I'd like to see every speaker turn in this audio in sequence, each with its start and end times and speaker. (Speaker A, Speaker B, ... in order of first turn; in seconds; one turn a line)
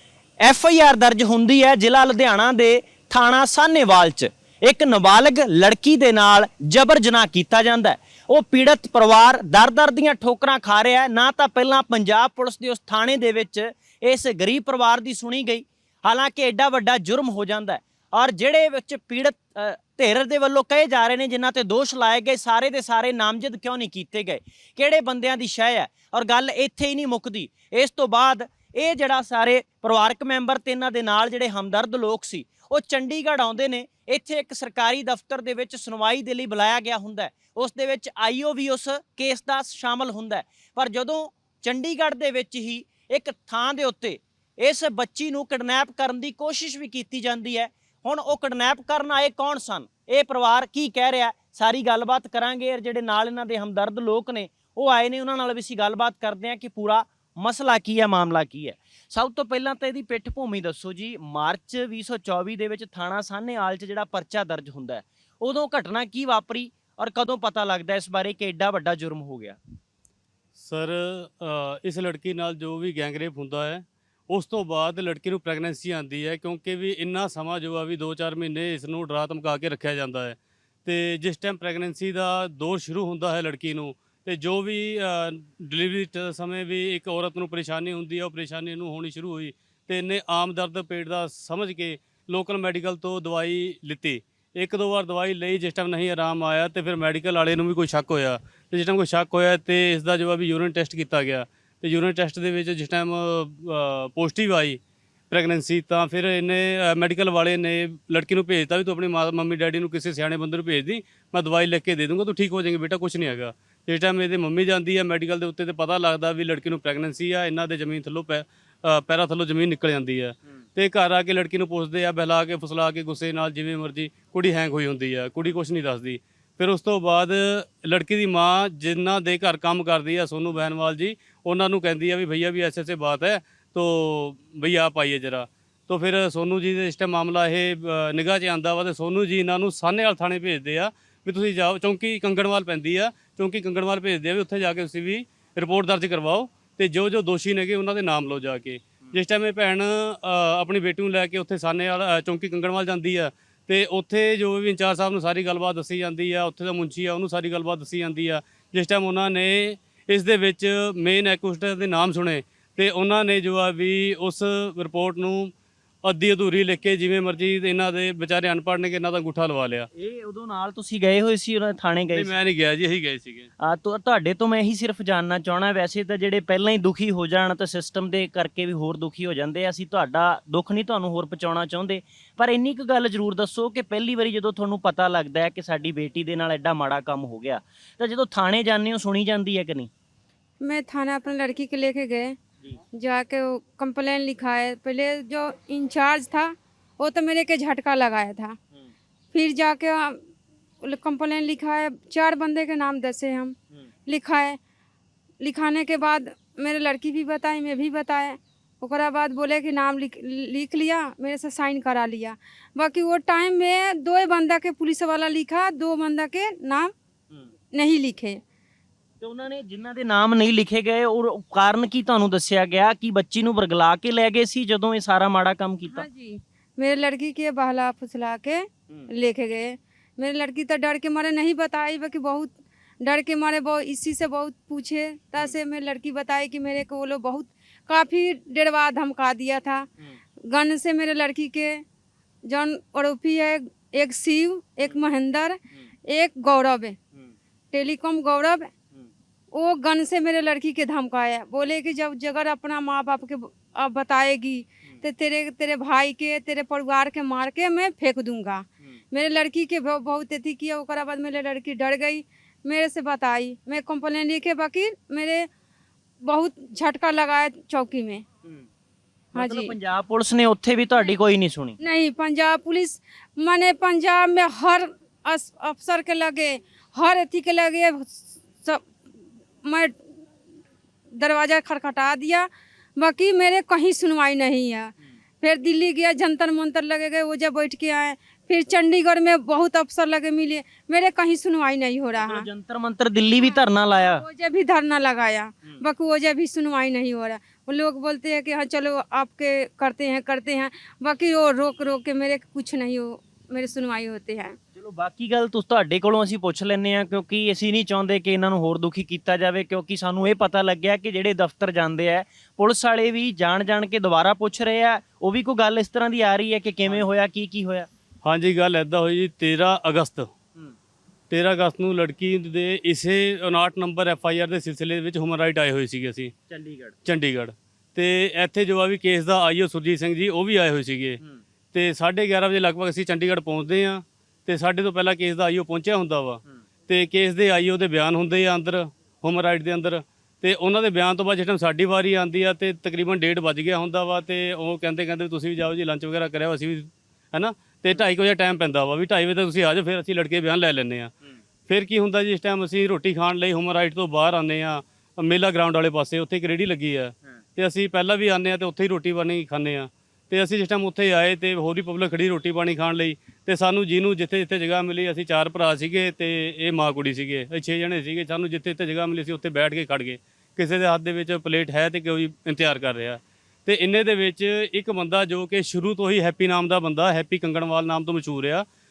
Speaker A: 0.4-69.6
Speaker B: 70.6-104.8
Speaker B: 105.3-165.5
Speaker B: 166.0-169.9
Speaker A: 169.9-172.3
Speaker B: 172.1-173.5
Speaker A: 173.6-189.9
Speaker C: 190.6-192.3
Speaker C: 192.9-198.6
Speaker C: 199.3-200.2
Speaker C: 200.8-204.6
Speaker C: 205.4-216.9
Speaker C: 217.7-218.4
Speaker A: 219.2-226.1
Speaker C: 225.9-239.9
Speaker C: 240.5-241.8
Speaker C: 242.5-247.0
Speaker C: 247.7-248.7
Speaker C: 249.5-265.5
Speaker C: 266.2-268.2
Speaker A: 269.3-271.8
Speaker C: 269.4-269.8
Speaker C: 271.8-278.9
Speaker C: 279.6-279.9
Speaker C: 281.2-292.5
Speaker A: 292.2-294.2
Speaker C: 293.4-304.6
Speaker A: 304.8-317.9
Speaker B: 318.2-320.3
Speaker B: 321.3-326.3
Speaker A: 326.5-326.9
Speaker B: 327.1-331.2
Speaker B: 331.7-351.1
Speaker B: 351.7-378.6